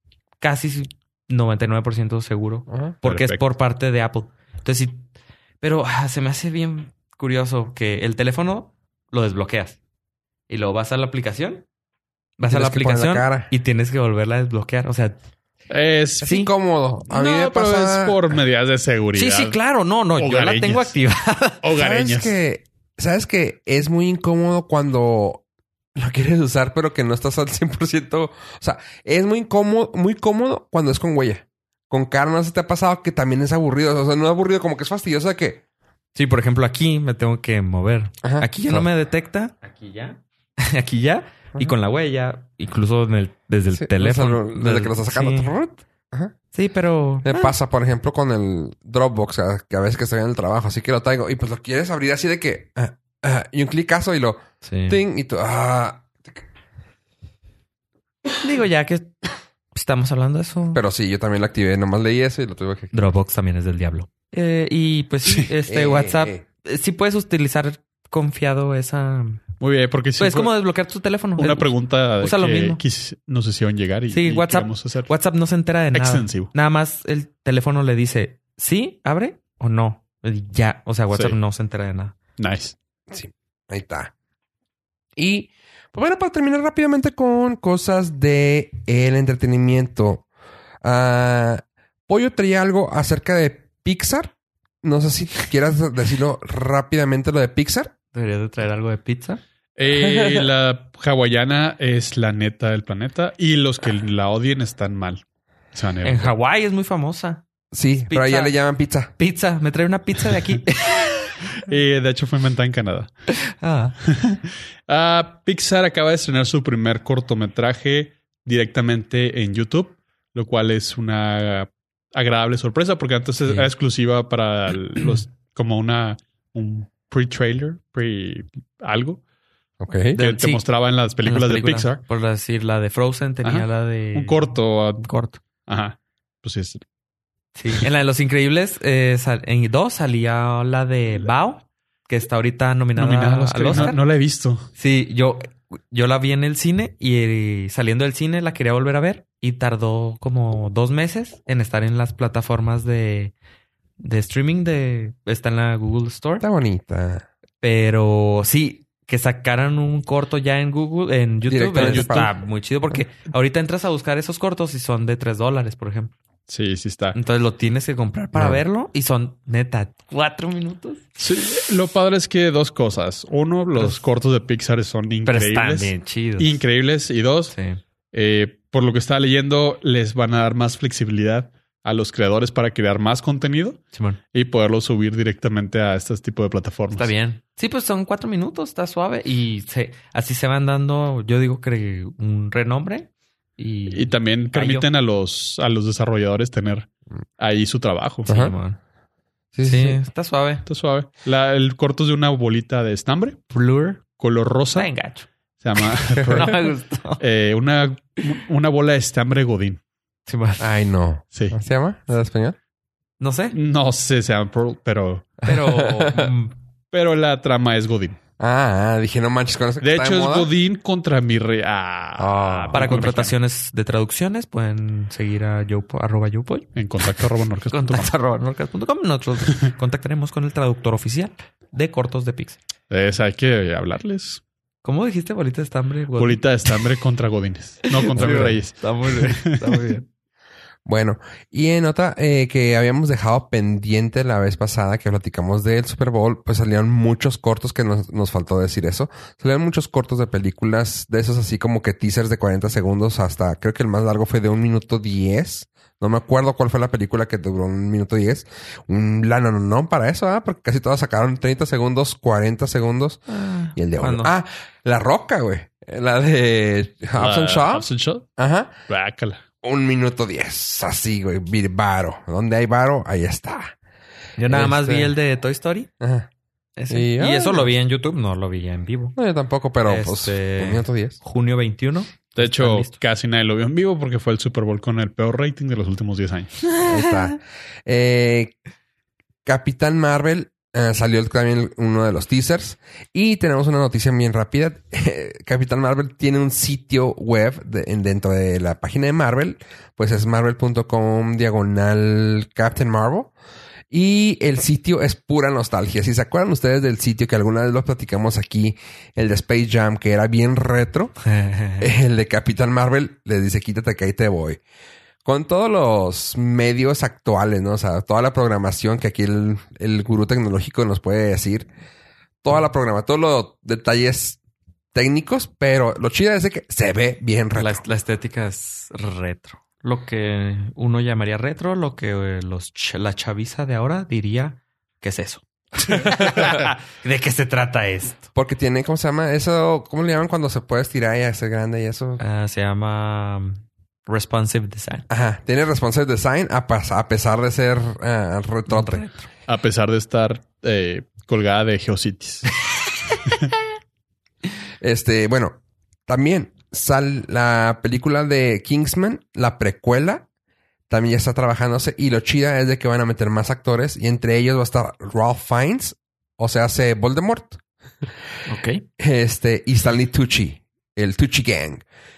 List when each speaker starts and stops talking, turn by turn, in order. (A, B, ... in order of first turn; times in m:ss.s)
0:00.4-0:05.0 A
0:02.7-0:03.0 B
0:03.0-0:03.4 C
0:05.6-0:09.8 A
0:10.5-0:11.6 A
0:12.4-0:15.2 A
0:12.5-0:13.5 B
0:15.7-0:16.3 C
0:16.2-0:16.5 A
0:16.2-0:18.2 B
0:17.1-0:19.6 C
0:19.1-0:21.6 A
0:20.2-0:20.9 C
0:21.6-0:22.3 C
0:21.8-0:25.4 B
0:26.0-0:35.6 B
0:36.1-0:45.5 A
0:38.2-0:38.8 B
0:43.7-0:46.3 B
0:46.5-0:47.5 A
0:47.2-0:56.4 B
0:54.6-0:55.0 A
0:58.4-1:00.8 A
1:00.7-1:03.1 B
1:02.9-1:09.4 A
1:05.7-1:06.4 B
1:09.6-1:10.5 C
1:10.2-1:12.8 A
1:11.4-1:15.1 C
1:14.1-1:22.1 A
1:15.9-1:16.5 C
1:21.1-1:21.4 C
1:22.4-1:22.7 C
1:23.1-1:24.1 B
1:25.2-1:30.2 B
1:30.8-1:37.9 B
1:38.1-1:39.4 A
1:39.8-1:45.2 C
1:39.9-1:40.4 B
1:45.7-1:46.3 C
1:46.0-1:47.4 A
1:47.7-1:49.1 B
1:48.1-1:48.5 A
1:49.2-1:51.4 A
1:51.6-1:53.1 C
1:53.4-1:54.0 A
1:54.0-2:09.2 C
2:03.4-2:03.7 A
2:09.8-2:10.2 B
2:10.1-2:10.6 A
2:10.1-2:12.0 C
2:11.2-2:14.5 A
2:13.4-2:15.1 C
2:15.0-2:15.4 A
2:15.7-2:16.8 C
2:17.5-2:24.0 A
2:23.0-2:24.7 C
2:24.8-2:33.3 A
2:34.0-2:36.4 A
2:36.4-2:37.2 B
2:37.6-2:46.1 A
2:41.4-2:42.3 B
2:41.8-2:42.3 C
2:46.5-2:47.2 C
2:47.1-2:51.0 A
2:48.3-2:48.6 B
2:51.2-2:57.5 C
2:53.7-2:54.0 A
2:55.2-2:56.6 A
2:57.5-2:57.8 A
2:58.1-3:07.1 C
3:03.9-3:04.2 A
3:06.9-3:14.9 A
3:13.9-3:18.3 C
3:18.2-3:18.8 A
3:18.3-3:18.5 B
3:19.5-3:20.0 B
3:19.6-3:20.6 A
3:20.6-3:23.4 C
3:23.5-3:24.0 A
3:24.2-3:24.9 C
3:24.7-3:25.3 A
3:25.6-3:29.8 C
3:26.2-3:26.4 B
3:26.3-3:27.2 A
3:30.2-3:30.6 A
3:30.6-3:32.6 B
3:33.2-3:33.6 A
3:33.5-3:35.4 C
3:35.4-3:36.5 A
3:35.5-3:36.3 B
3:36.9-3:38.2 C
3:38.4-3:40.5 B
3:39.8-3:43.3 C
3:42.2-3:43.0 B
3:42.7-3:52.6 A
3:46.7-3:48.1 C
3:52.9-3:54.4 C
3:54.8-3:56.8 A
3:56.1-3:59.9 C
3:57.8-4:00.1 A
4:00.8-4:23.2 B
4:23.3-4:24.3 A
4:23.7-4:28.7 B
4:27.1-4:28.3 C
4:28.9-4:29.4 C
4:29.6-4:33.7 B
4:34.4-4:35.9 A
4:34.5-4:35.1 B
4:36.0-4:36.3 B
4:36.8-4:39.2 A
4:36.9-4:37.7 B
4:39.2-4:41.2 B
4:39.8-4:43.0 A
4:42.4-4:46.6 C
4:46.7-4:47.3 A
4:46.8-4:48.5 B
4:49.4-5:03.3 B
5:03.9-5:11.1 B
5:11.2-5:11.9 A
5:11.8-5:14.6 B
5:15.2-5:21.7 B
5:22.4-5:24.4 B
5:24.9-5:27.8 B
5:27.5-5:38.3 A
5:35.9-5:36.3 B
5:38.3-5:42.2 B
5:42.2-5:45.0 A
5:45.1-5:49.0 B
5:48.7-5:49.3 A
5:49.5-5:52.5 C
5:54.8-6:00.2 B
6:00.9-6:08.1 B
6:08.5-6:08.8 A
6:09.0-6:11.8 B